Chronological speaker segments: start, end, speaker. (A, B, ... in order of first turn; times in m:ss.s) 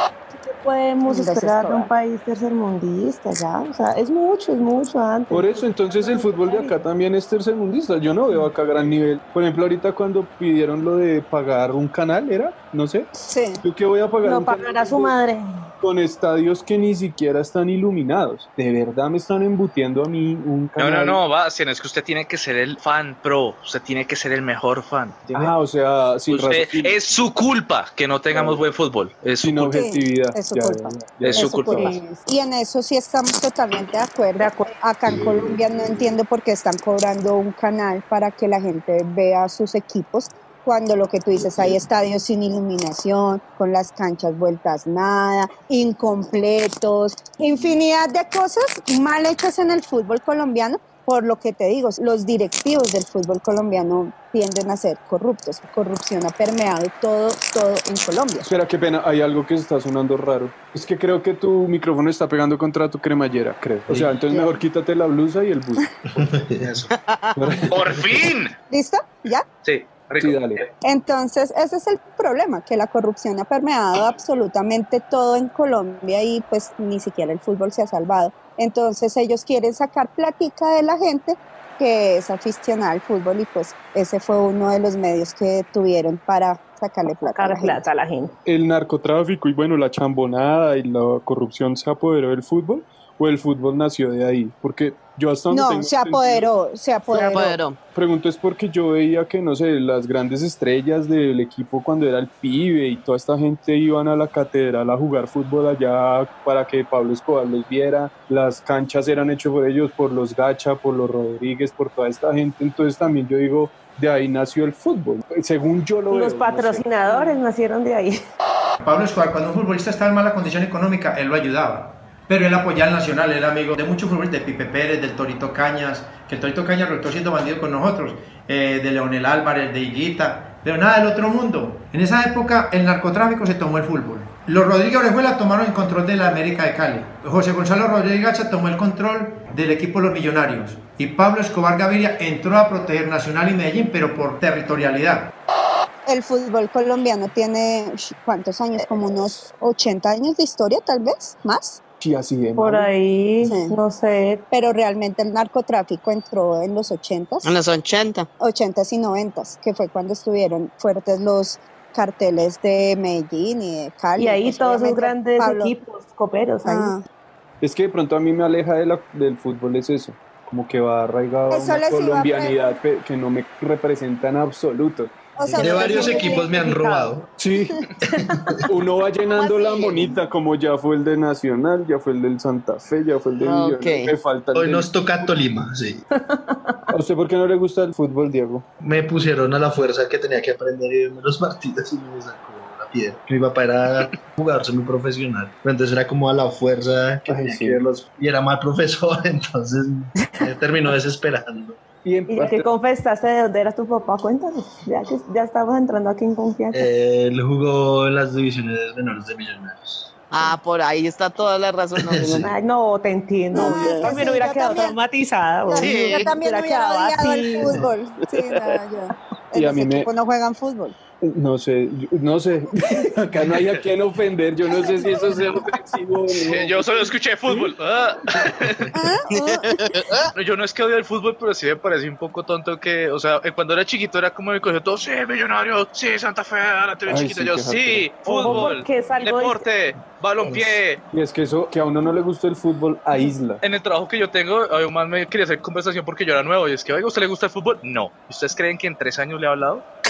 0:00.3-0:06.7 A
0:01.1-0:01.9 B
0:05.3-0:13.1 C
0:13.3-0:13.6 B
0:13.6-0:15.1 C
0:14.2-0:15.6 A
0:15.8-0:21.2 C
0:20.8-0:25.5 D
0:25.3-0:27.2 C
0:26.3-0:29.8 D
0:28.3-0:28.6 C
0:29.4-0:31.9 C
0:29.7-0:58.5 B
0:31.2-0:31.9 D
0:31.7-0:32.2 A
0:34.4-0:34.7 A
0:58.4-1:06.4 C
1:06.1-1:06.8 E
1:06.9-1:07.5 F
1:07.4-1:08.3 C
1:07.7-1:08.5 D
1:08.7-1:09.4 B
1:09.6-1:10.6 D
1:10.2-1:10.6 C
1:10.8-1:27.8 B
1:27.3-1:28.3 A
1:28.4-1:36.5 C
1:35.5-1:37.6 B
1:37.1-1:37.8 F
1:37.9-1:56.9 C
1:56.1-1:58.1 A
1:58.8-2:25.3 G
2:26.0-2:31.8 B
2:32.0-2:32.9 C
2:32.6-2:34.4 A
2:33.4-2:33.7 B
2:34.5-2:37.5 B
2:37.4-2:38.3 F
2:38.4-2:45.7 B
2:44.2-2:46.9 A
2:46.6-2:47.0 B
2:47.6-2:56.0 C
2:51.5-2:52.8 B
2:55.4-2:56.5 B
2:55.5-2:57.4 E
2:55.6-2:57.1 A
2:57.4-2:57.9 C
2:58.0-2:58.6 E
2:58.7-3:04.9 C
2:59.3-3:00.2 F
3:03.4-3:04.1 F
3:04.5-3:06.0 E
3:06.2-3:06.8 A
3:06.9-3:08.6 C
3:08.8-3:21.8 E
3:17.2-3:17.8 C
3:22.0-3:22.7 C
3:22.3-3:26.8 A
3:26.7-3:30.1 E
3:30.3-3:32.5 F
3:32.0-3:32.5 E
3:32.4-3:37.8 A
3:33.5-3:35.0 B
3:33.5-3:34.2 F
3:35.7-3:40.9 B
3:35.8-3:36.3 F
3:39.5-3:40.1 C
3:41.2-3:47.7 C
3:46.4-3:48.9 D
3:48.9-3:49.8 B
3:49.3-3:50.3 F
3:50.4-4:01.0 D
3:57.0-3:58.7 C
3:58.2-3:59.6 A
4:01.1-4:03.6 C
4:03.6-4:09.8 D